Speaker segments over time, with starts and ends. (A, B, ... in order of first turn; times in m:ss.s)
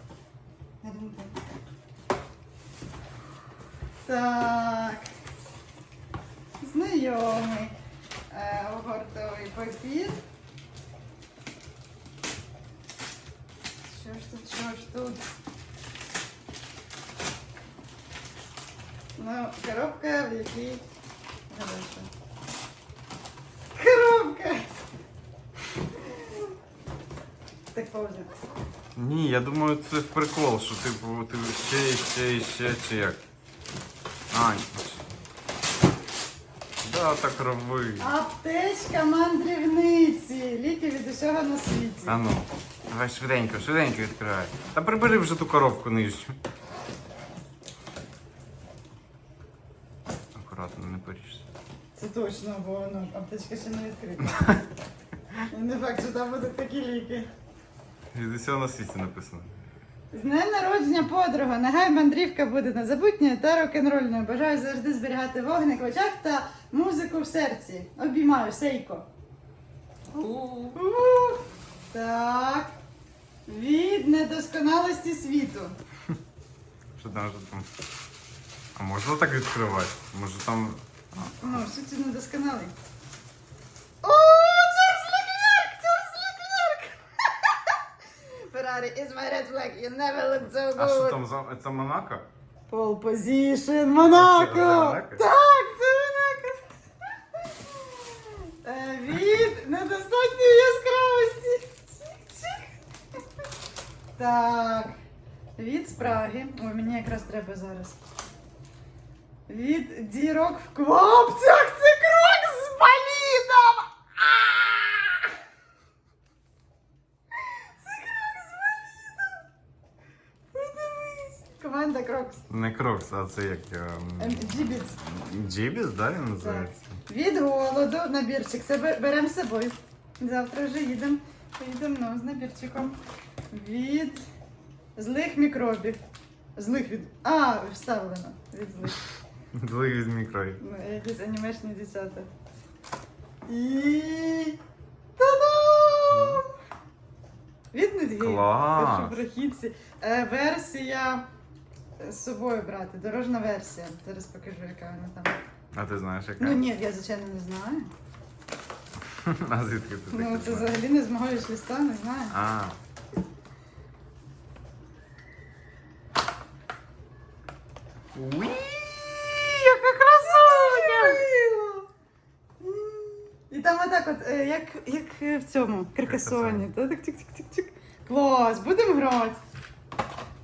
0:00.8-0:01.4 A
0:04.0-0:05.1 A
0:06.6-0:07.7 A
0:08.3-0:10.2 A
0:13.9-0:15.2 A
0:19.2-0:20.8 A
0:21.5-0:22.1 A
0:23.8-0:24.7 A
0:27.7-0:28.3 A
0:29.0-0:33.2 B
0:34.3-0:35.0 B
0:36.8-0:38.1 B
0:38.0-0:42.2 A
0:42.1-0:46.4 B
0:50.4-0:51.5 B
0:52.0-0:54.6 A
0:55.4-0:57.3 A
0:58.1-0:59.5 B
1:00.1-1:09.1 A
1:10.1-1:10.8 B
1:10.7-1:12.7 A
1:13.5-1:15.8 A
1:17.0-1:17.7 B
1:18.8-1:21.6 B
1:21.4-1:22.7 A
1:24.0-1:27.8 A
1:28.5-1:31.2 A
1:30.8-1:32.3 B
1:32.7-1:36.7 A
1:34.0-1:35.2 B
1:37.4-1:42.7 A
1:44.2-1:44.9 A
1:45.6-1:48.0 A
1:49.5-1:55.3 A
1:57.7-1:59.4 A
2:00.5-2:02.4 A
2:02.5-2:06.8 B
2:04.2-2:05.0 A
2:06.4-2:13.0 A
2:13.5-2:14.2 A
2:15.0-2:16.0 A
2:16.6-2:19.0 A
2:19.5-2:20.6 B
2:20.6-2:22.3 A
2:23.5-2:24.6 A
2:25.2-2:26.5 A
2:26.1-2:26.4 B
2:27.7-2:31.3 A
2:28.2-2:29.2 B
2:32.0-2:35.4 A
2:35.7-2:36.6 B
2:36.4-2:37.9 A
2:39.2-2:40.8 B
2:40.1-2:42.4 A
2:42.3-2:42.8 B
2:48.2-2:49.5 B
2:49.5-2:51.9 A
2:50.3-2:51.2 B
2:52.6-2:59.4 A
2:56.0-2:56.7 B